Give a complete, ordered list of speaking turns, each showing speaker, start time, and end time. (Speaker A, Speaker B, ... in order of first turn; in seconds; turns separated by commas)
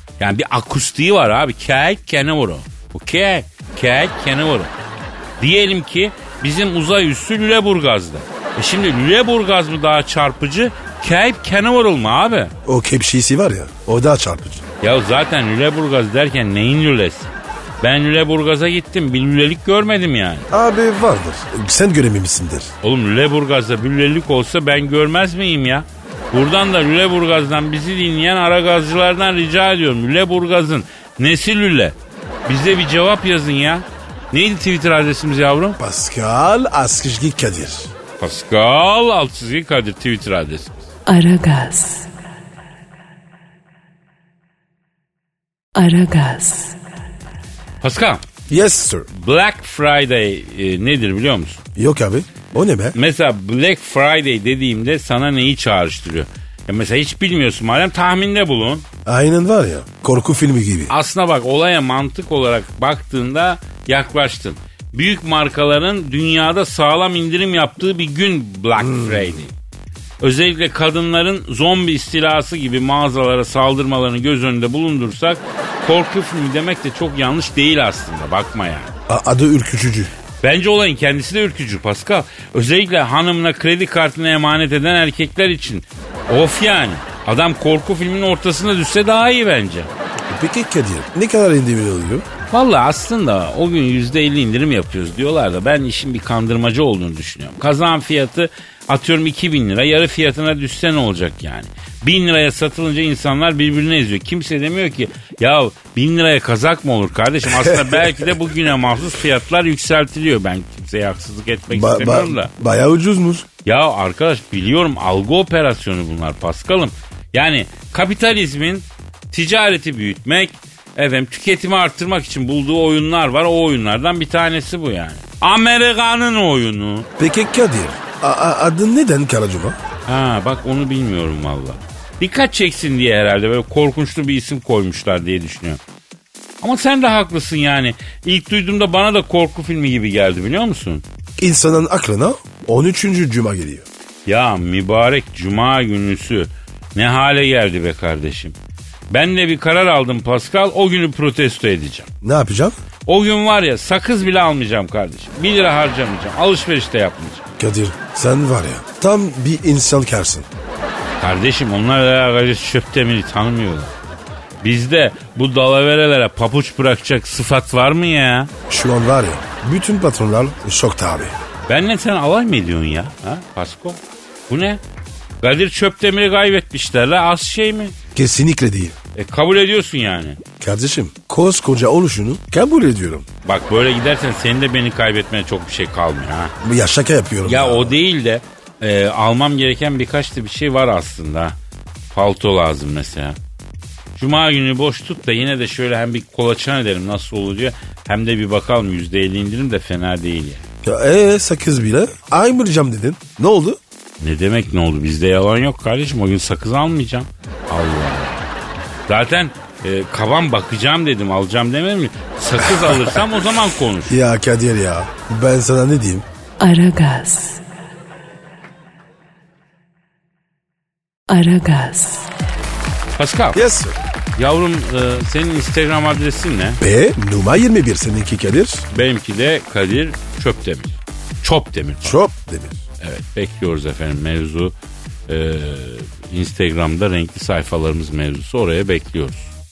Speaker A: 0.2-4.7, Speaker A: 5.4-12.5, Speaker B: 12.7-14.7, Speaker A: 14.8-20.5, Speaker B: 20.5-22.7, Speaker A: 22.8-35.8, Speaker B: 35.8-37.9, Speaker A: 38.2-40.8, Speaker C: 41.1-42.1, Speaker C: 45.8-46.8, Speaker A: 47.8-48.2, Speaker B: 48.5-49.1, Speaker A: 49.1-51.6, Speaker B: 51.8-53.0, Speaker A: 53.0-58.9, Speaker B: 59.1-60.9, Speaker A: 60.9-69.5, Speaker B: 68.8-69.4, Speaker A: 70.2-78.9, Speaker B: 79.1-80.1, Speaker A: 80.4-89.9, Speaker B: 90.3-92.3, Speaker A: 92.5-112.5, Speaker B: 107.5-108.5, Speaker B: 111.7-113.5, Speaker A: 113.7-127.1, Speaker B: 127.2-129.8, Speaker A: 130.1-135.8, Speaker A: 136.6-141.0, Speaker B: 141.4-143.9, Speaker A: 144.3-148.6, Speaker A: 149.1-152.1, Speaker B: 152.2-152.8, Speaker A: 153.1-157.4, Speaker B: 157.6-160.5, Speaker A: 161.2-163.9, Speaker A: 164.6-168.5, Speaker B: 168.7-171.3, Speaker A: 171.7-174.8, Speaker A: 175.4-177.9, Speaker B: 178.2-179.0, Speaker A: 179.2-180.4, Speaker B: 180.6-183.3, Speaker A: 183.4-186.5, Speaker B: 186.6-188.0, Speaker A: 187.4-191.6, Speaker A: 192.1-193.4, Speaker A: 194.2-200.6, Speaker B: 200.8-203.8, Speaker A: 204.2-208.4, Speaker A: 209.1-214.2, Speaker B: 212.8-213.1, Speaker B: 214.1-216.3, Speaker C: 216.6-217.6, Speaker C: 221.3-222.3, Speaker A: 223.2-223.6, Speaker B: 223.5-224.0, Speaker A: 224.4-226.8, Speaker B: 226.8-228.9, Speaker A: 228.9-232.2, Speaker B: 232.0-232.8, Speaker A: 233.0-234.7, Speaker A: 235.3-239.5